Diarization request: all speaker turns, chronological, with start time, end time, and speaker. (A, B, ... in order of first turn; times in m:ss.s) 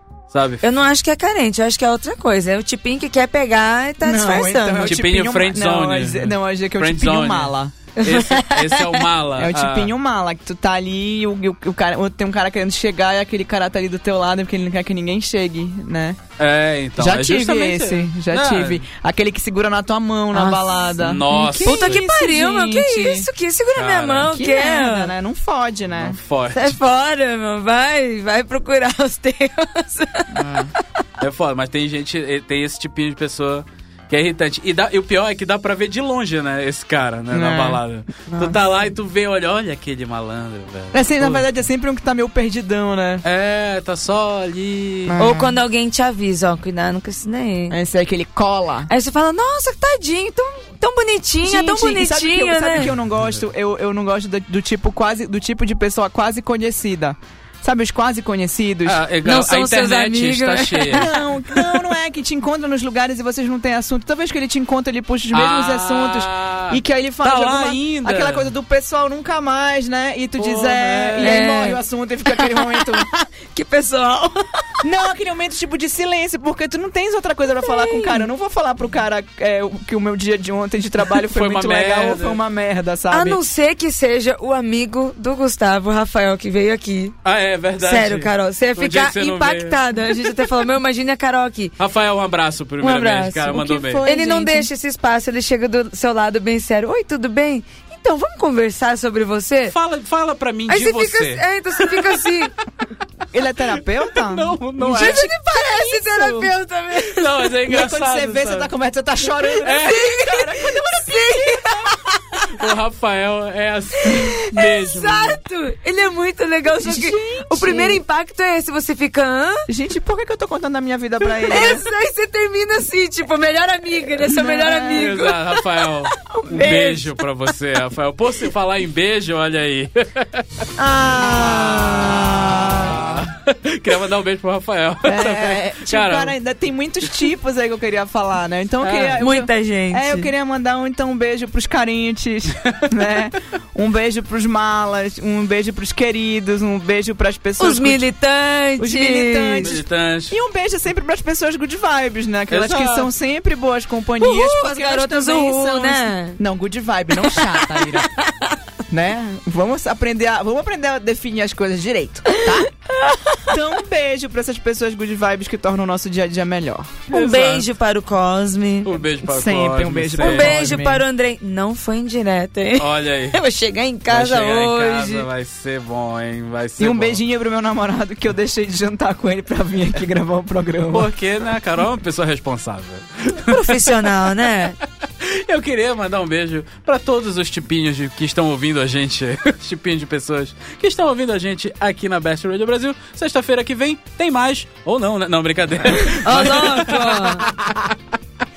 0:00.3-0:00.6 A
0:00.6-0:04.9 B
0:04.0-0:07.7 C
0:04.8-0:09.9 A
0:08.0-0:09.0 B
0:09.4-0:16.2 C
0:16.4-0:18.8 A
0:17.0-0:23.3 C
0:20.3-0:20.8 B
0:21.0-0:22.0 A
0:21.3-0:25.1 B
0:23.8-0:24.3 A
0:24.3-0:26.2 C
0:25.9-0:26.8 A
0:26.5-0:30.4 B
0:30.3-0:30.7 C
0:31.2-0:41.5 A
0:37.3-0:37.8 C
0:38.3-0:38.6 B
0:40.9-0:43.2 C
0:43.2-0:45.2 A
0:45.1-0:45.6 C
0:45.2-0:47.8 B
0:47.7-0:48.9 C
0:48.9-0:52.9 B
0:51.4-0:59.0 C
0:58.8-1:01.7 A
0:59.2-1:01.0 B
1:00.9-1:13.0 C
1:05.3-1:08.5 A
1:10.4-1:11.4 A
1:11.2-1:11.8 B
1:12.3-1:14.4 B
1:14.8-1:23.4 C
1:17.7-1:18.2 B
1:21.2-1:22.4 A
1:23.1-1:27.2 B
1:27.2-1:29.8 A
1:27.8-1:31.7 B
1:31.8-1:34.0 A
1:32.8-1:39.7 B
1:33.4-1:34.7 C
1:39.7-1:42.2 A
1:40.7-1:42.5 B
1:43.3-1:46.5 C
1:44.1-1:45.3 A
1:44.8-1:47.3 B
1:47.0-1:48.7 A
1:47.6-1:52.0 C
1:49.6-1:50.1 A
1:49.7-1:52.5 B
1:52.4-1:55.4 A
1:54.0-1:59.7 B
1:56.8-1:58.0 C
1:59.7-2:01.8 C
2:01.2-2:05.6 B
2:04.2-2:05.2 C
2:04.8-2:10.4 A
2:06.2-2:07.1 B
2:10.8-2:13.2 C
2:11.4-2:16.3 A
2:15.0-2:28.0 C
2:18.8-2:19.2 A
2:19.2-2:20.3 B
2:22.6-2:22.9 A
2:27.6-2:29.7 B
2:28.8-2:38.1 C
2:29.6-2:30.4 A
2:32.5-2:33.1 A
2:34.2-2:36.4 B
2:37.2-2:38.5 B
2:38.9-2:42.7 C
2:42.3-2:43.5 B
2:43.4-2:47.1 C
2:47.1-2:49.0 B
2:47.1-2:47.7 A
2:48.8-2:50.8 A
2:49.2-2:51.0 C
2:50.2-2:55.3 B
2:52.8-2:53.4 A
2:54.1-2:57.2 A
2:56.8-3:01.1 C
3:00.9-3:04.1 A
3:03.3-3:04.8 B
3:05.0-3:17.7 A
3:16.2-3:17.4 B